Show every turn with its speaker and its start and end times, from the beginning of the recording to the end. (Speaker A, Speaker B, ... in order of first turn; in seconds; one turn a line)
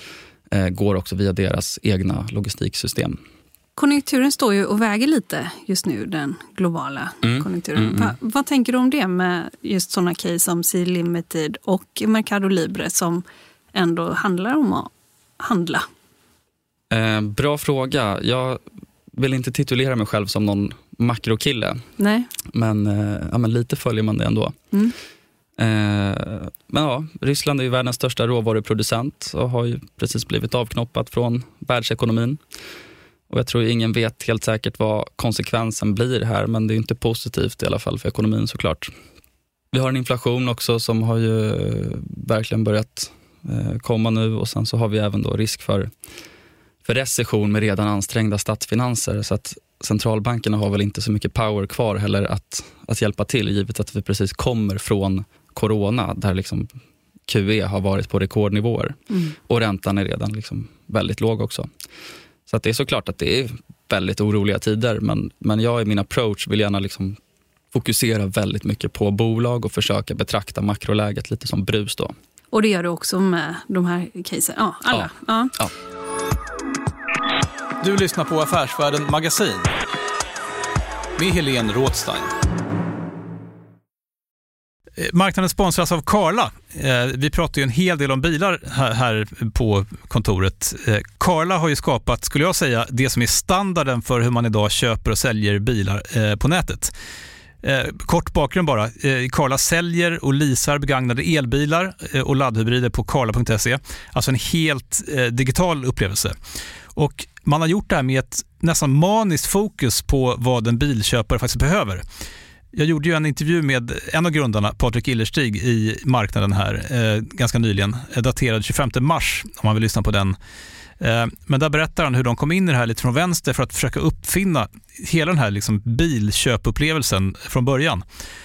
Speaker A: 0.5-3.2
Speaker B: 3.8-15.8
Speaker A: 7.2-8.1
Speaker A: 16.9-21.9
Speaker B: 22.0-22.3
Speaker A: 22.4-24.6
Speaker A: 25.6-32.4
Speaker A: 33.3-38.9
Speaker A: 39.7-45.9
Speaker A: 46.8-56.7
Speaker A: 57.3-61.7
Speaker A: 62.5-67.2
Speaker A: 67.7-72.1
Speaker B: 72.5-75.5
Speaker A: 74.9-75.7
Speaker C: 77.8-79.7
Speaker C: 81.2-82.3
Speaker C: 85.0-96.9
Speaker C: 97.6-106.3
Speaker C: 106.9-112.0
Speaker C: 112.7-120.3
Speaker C: 121.0-128.0